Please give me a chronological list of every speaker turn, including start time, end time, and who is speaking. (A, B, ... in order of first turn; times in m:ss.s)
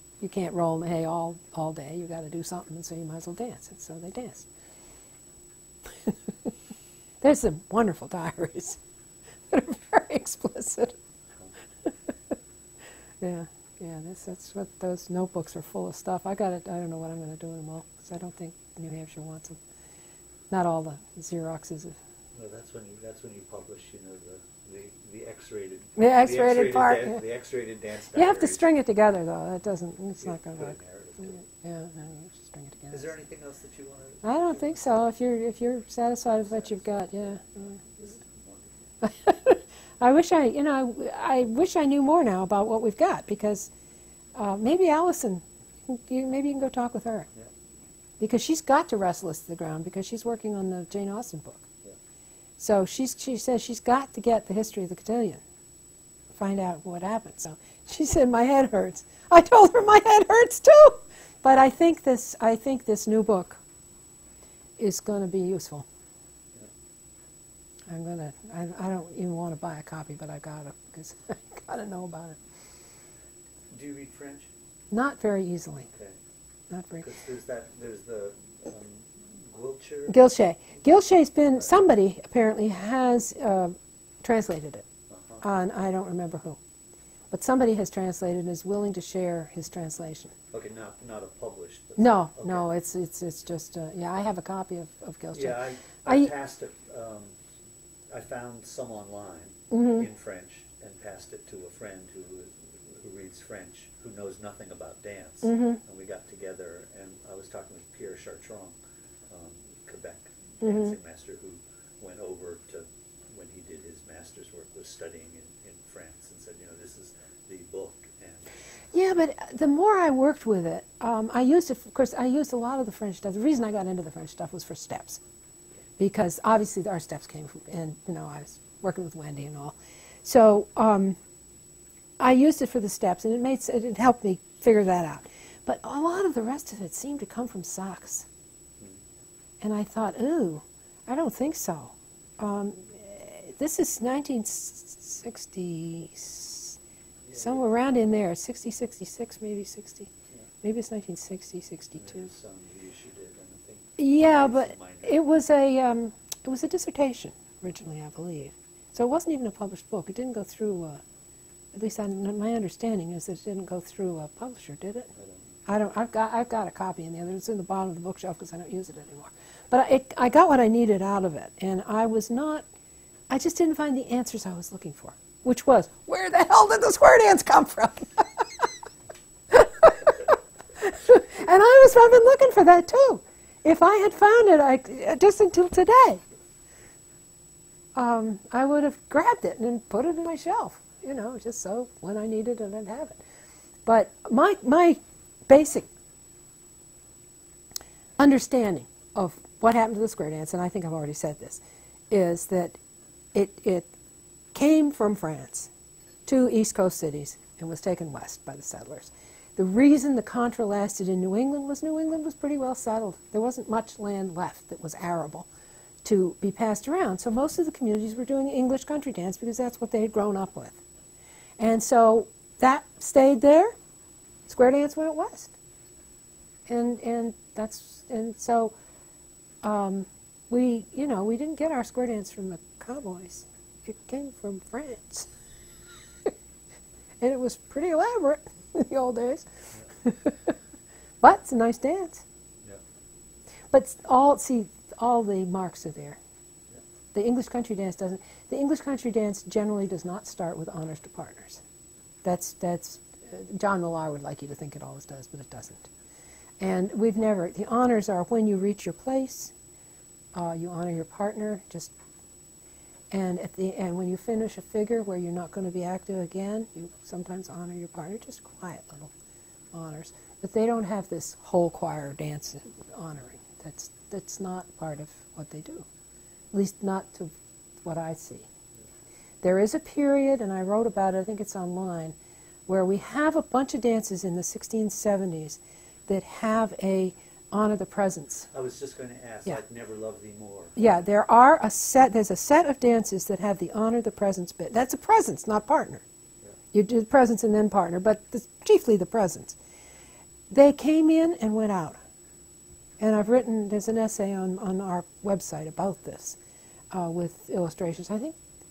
0:00.2-0:04.5 A
0:06.0-0:06.5 A
0:07.2-0:08.8 A
0:09.5-0:11.0 A
0:13.2-0:19.6 A
0:20.5-0:22.0 A
0:22.3-0:28.7 B
0:26.0-0:27.2 A
0:28.1-0:30.8 A
0:30.2-0:31.4 B
0:31.3-0:33.0 A
0:32.9-0:35.1 B
0:34.2-0:37.8 A
0:36.2-0:38.7 B
0:39.0-0:43.7 A
0:44.3-0:47.3 A
0:48.2-0:51.7 A
0:52.6-0:55.4 A
0:56.3-1:03.6 A
1:04.8-1:05.8 A
1:07.9-1:12.4 A
1:13.7-1:14.5 B
1:14.9-1:15.8 A
1:15.8-1:16.2 B
1:16.7-1:17.0 A
1:17.0-1:20.2 B
1:20.1-1:24.8 A
1:25.1-1:25.4 B
1:25.4-1:26.6 A
1:27.3-1:30.3 A
1:30.5-1:32.7 B
1:32.0-1:36.3 A
1:35.3-1:37.3 B
1:38.1-1:48.8 B
1:39.7-1:40.1 A
1:45.4-1:45.8 A
1:49.3-1:58.6 B
1:50.6-1:50.9 A
1:58.9-2:05.2 A
2:06.0-2:11.2 A
2:12.2-2:18.3 A
2:19.6-2:26.8 A
2:27.2-2:27.6 B
2:27.4-2:30.1 A
2:30.6-2:32.3 A
2:32.0-2:35.2 B
2:34.0-2:41.0 A
2:41.7-2:45.1 A
2:45.1-2:45.6 B
2:45.7-2:52.6 A
2:53.3-2:58.7 A
2:59.5-3:06.2 A
3:07.9-3:13.2 A
3:13.8-3:15.9 A
3:18.2-3:22.8 A
3:23.3-3:23.9 A
3:24.5-3:25.7 A
3:26.2-3:35.5 A
3:36.0-3:40.8 A
3:41.6-3:43.7 A
3:44.5-3:45.5 A
3:46.7-3:48.7 A
3:49.6-3:55.3 A
3:57.2-3:59.5 A
4:00.0-4:00.5 A
4:01.2-4:02.2 A
4:03.7-4:06.2 A
4:07.1-4:11.6 A
4:12.2-4:15.9 A
4:16.6-4:19.5 A
4:20.3-4:21.9 A
4:23.1-4:29.1 A
4:29.7-4:35.8 A
4:36.5-4:37.3 A
4:37.8-4:38.5 A
4:39.4-4:42.1 A
4:42.7-4:48.5 A
4:48.5-4:50.8 B
4:50.8-4:56.0 A
4:56.7-4:59.6 A
5:00.5-5:02.0 A
5:03.0-5:06.4 A
5:06.9-5:08.3 A